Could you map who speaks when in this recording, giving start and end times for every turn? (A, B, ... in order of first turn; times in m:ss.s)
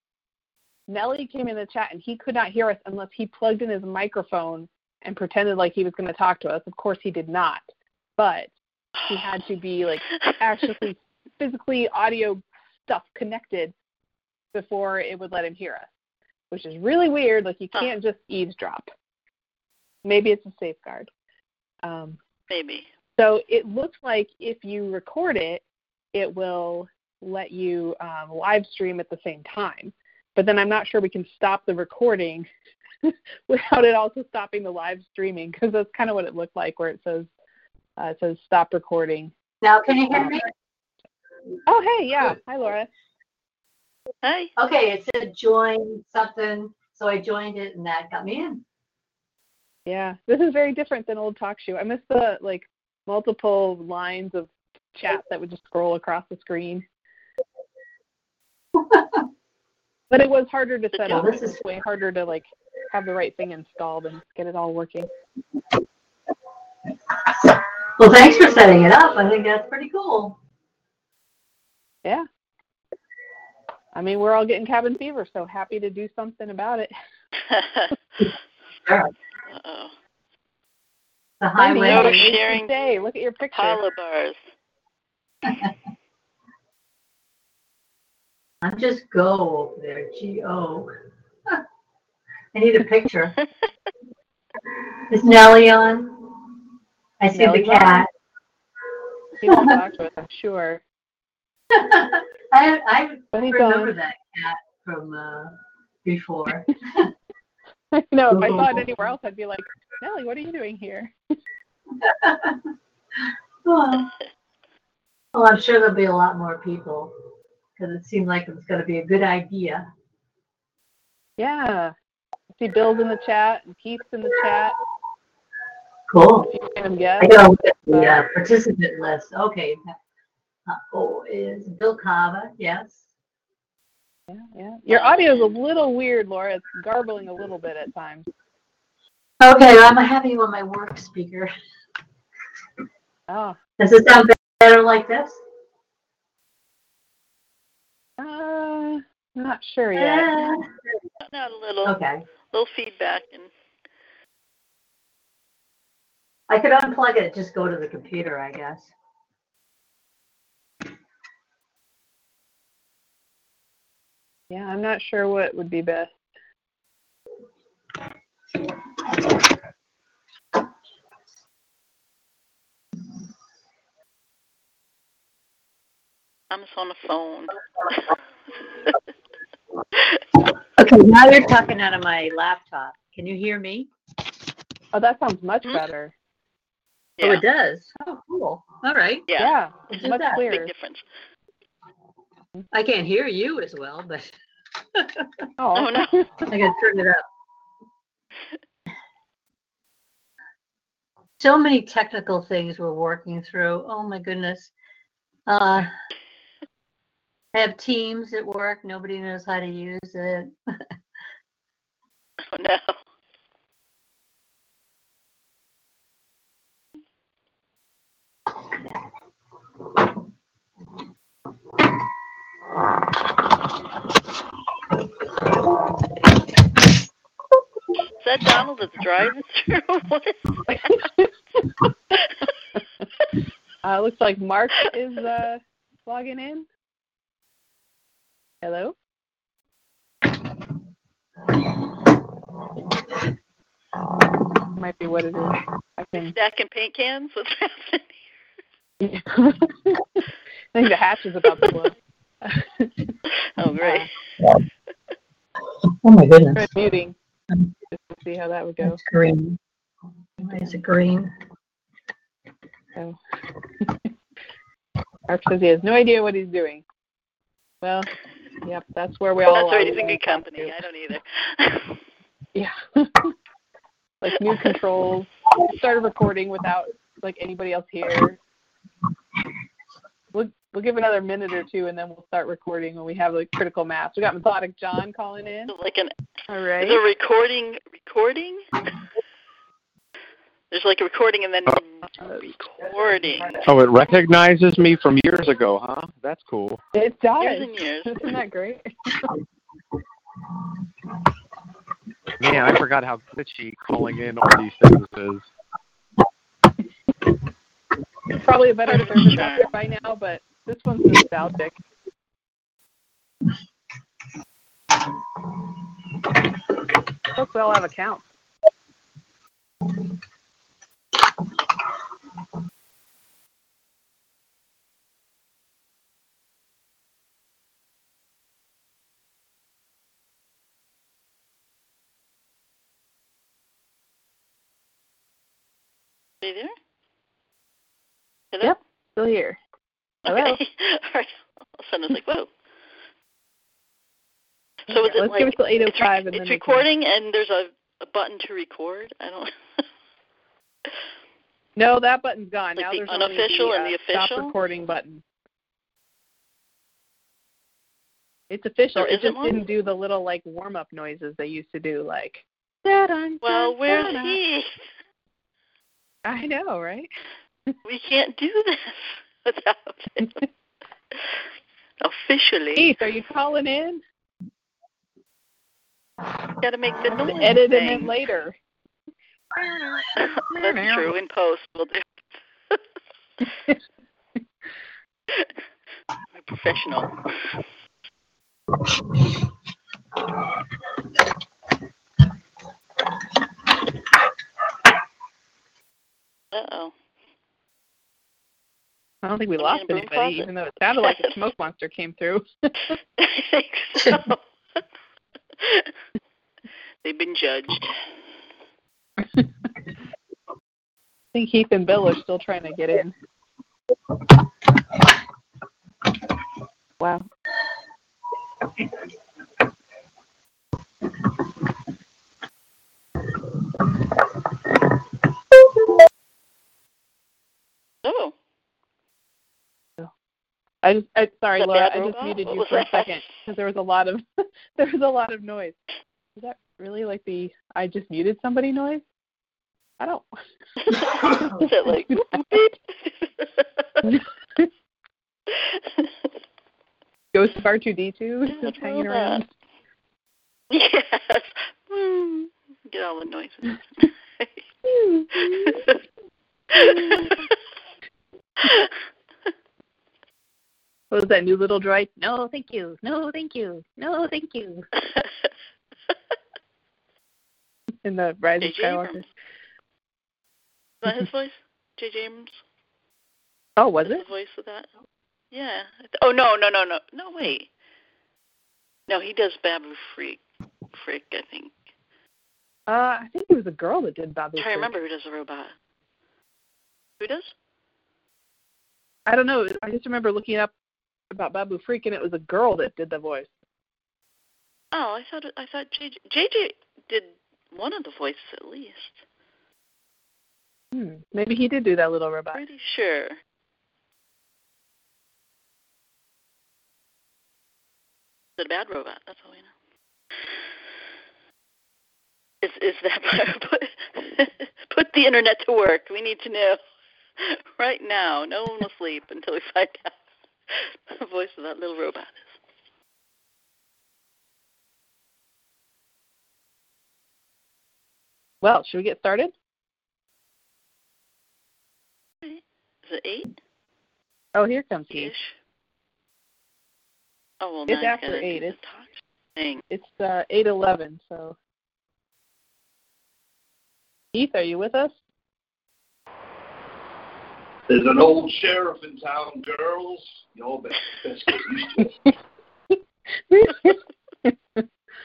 0:00.9-0:07.7 A
0:08.2-0:08.5 A
0:09.0-0:09.2 B
0:09.1-0:13.7 A
0:14.5-0:15.9 A
0:16.5-0:18.9 A
0:20.0-0:21.1 A
0:21.8-0:22.2 A
0:22.5-0:22.9 B
0:23.2-0:25.6 A
0:26.1-0:32.5 A
0:33.1-0:37.3 A
0:38.0-0:39.3 A
0:39.6-0:40.5 C
0:40.1-0:40.4 A
0:41.7-0:42.9 A
0:44.2-0:44.5 B
0:44.6-0:48.6 C
0:49.9-0:56.8 A
1:00.1-1:05.1 A
1:00.9-1:01.3 B
1:01.1-1:01.6 C
1:08.0-1:10.4 C
1:13.9-1:16.9 A
1:17.4-1:17.9 B
1:18.9-1:19.1 C
1:19.5-1:19.9 B
1:21.4-1:22.3 C
1:21.6-1:23.8 A
1:21.8-1:22.7 B
1:23.5-1:24.4 B
1:28.6-1:30.9 C
1:32.5-1:33.4 C
1:35.1-1:36.3 C
1:37.2-1:38.1 C
1:37.3-1:38.1 A
1:39.4-1:40.8 A
1:39.5-1:39.8 C
1:41.7-1:47.1 C
1:43.3-1:44.0 A
1:47.9-1:51.1 A
1:48.3-1:48.9 C
1:52.0-1:52.6 C
1:53.6-1:54.1 C
1:55.4-1:57.2 C
1:57.8-1:59.9 C
2:01.4-2:01.9 A
2:02.6-2:04.8 A
2:06.1-2:06.5 C
2:06.4-2:07.4 A
2:07.2-2:09.9 C
2:07.9-2:08.2 A
2:10.7-2:13.1 C
2:14.3-2:18.2 A
2:14.9-2:15.6 B
2:19.4-2:21.5 C
2:23.3-2:23.6 A
2:23.8-2:25.4 C
2:28.2-2:30.4 A
2:30.0-2:30.7 C
2:31.2-2:32.0 B
2:31.8-2:32.2 C
2:32.5-2:33.5 B
2:36.5-2:38.9 C
2:44.5-2:46.1 A
2:56.5-2:57.5 B
3:00.8-3:03.9 C
3:04.9-3:06.1 A
3:07.2-3:07.4 B
3:07.2-3:09.2 C
3:09.3-3:09.6 B
3:09.4-3:10.7 A
3:09.9-3:10.4 C
3:10.3-3:11.1 B
3:12.7-3:14.3 C
3:15.6-3:16.5 A
3:15.8-3:16.2 B
3:16.5-3:17.2 C
3:21.4-3:24.7 C
3:25.5-3:25.9 C
3:27.5-3:30.5 C
3:32.5-3:33.0 B
3:48.2-3:51.0 B
3:53.8-3:56.6 A
3:58.6-3:58.9 A
4:04.8-4:06.3 A
4:06.2-4:08.1 B
4:09.0-4:10.0 A
4:10.7-4:12.9 A
4:13.6-4:14.1 B
4:13.8-4:14.1 A
4:16.0-4:16.7 C
4:16.6-4:17.1 A
4:18.0-4:19.0 A
4:18.8-4:19.6 C
4:20.4-4:21.3 C
4:25.3-4:26.8 A
4:27.8-4:28.1 A
4:28.6-4:30.8 A
4:29.5-4:32.0 B
4:32.6-4:33.3 A
4:34.2-4:38.4 A
4:40.3-4:45.7 A
4:45.7-4:46.1 B
4:46.5-4:47.0 A
4:46.8-4:48.6 B
4:50.7-4:53.6 B
4:52.2-4:52.4 A
4:52.8-4:53.6 D
4:53.6-4:56.8 E
4:56.9-4:58.8 A
4:57.4-4:58.2 B
5:02.4-5:05.5 E
5:08.4-5:11.8 A
5:08.9-5:09.7 B
5:17.3-5:18.2 A
5:36.4-5:36.7 B
5:38.6-5:39.6 A
5:40.2-5:42.5 B
5:40.3-5:40.6 A
5:44.9-5:49.6 B
5:44.9-5:46.9 A
5:51.8-5:55.2 A
5:52.8-5:54.5 B
5:58.5-6:04.4 A
5:59.0-5:59.6 B
6:03.4-6:04.8 B
6:06.2-6:07.1 A
6:07.8-6:10.4 B
6:12.0-6:13.0 B
6:12.8-6:14.0 A
6:16.6-6:18.1 B
6:17.1-6:18.6 A
6:20.2-6:22.0 B
6:20.5-6:21.1 A
6:26.4-6:27.6 B
6:36.5-6:36.9 B
6:39.2-6:42.7 A
6:39.6-6:40.5 B
6:41.0-6:41.3 B
6:43.2-6:44.4 B
6:44.0-6:44.3 C
6:45.6-6:45.9 B
6:47.0-6:48.0 B
6:51.3-6:53.1 A
6:57.0-6:57.2 A
7:08.0-7:08.4 B
7:10.8-7:14.2 A
7:11.6-7:13.2 B
7:14.8-7:15.8 A
7:16.4-7:19.0 A
7:20.0-7:20.3 A
7:20.9-7:23.8 B
7:21.4-7:22.7 A
7:25.6-7:26.1 B
7:27.3-7:29.5 A
7:28.5-7:29.4 B
7:30.7-7:34.6 B
7:34.9-7:35.6 A
7:35.5-7:36.0 B
7:36.7-7:37.5 B
7:38.6-7:38.9 B
7:41.1-7:44.8 A
7:45.1-7:45.5 B
7:48.0-7:49.2 A
7:48.6-7:49.2 B
7:51.0-7:52.6 B
7:53.8-7:54.2 A
7:54.0-7:54.9 B
7:55.5-7:57.7 B
7:59.1-8:00.4 B
8:00.9-8:01.7 B
8:02.9-8:05.0 A
8:04.6-8:05.7 B
8:07.2-8:07.5 B
8:09.3-8:10.7 A
8:11.3-8:13.5 A
8:14.9-8:19.2 B
8:20.9-8:22.6 A
8:22.5-8:23.4 B
8:28.6-8:29.7 B
8:32.6-8:36.8 B
8:37.4-8:40.2 B
8:40.7-8:42.6 B
8:48.6-8:49.5 A
8:52.4-8:53.5 B
8:54.6-8:55.3 A
8:55.1-8:55.6 B
8:57.6-8:59.8 B
8:57.9-8:58.8 A
8:59.9-9:01.6 A
9:04.3-9:05.1 A
9:07.9-9:12.3 D
9:13.5-9:14.8 A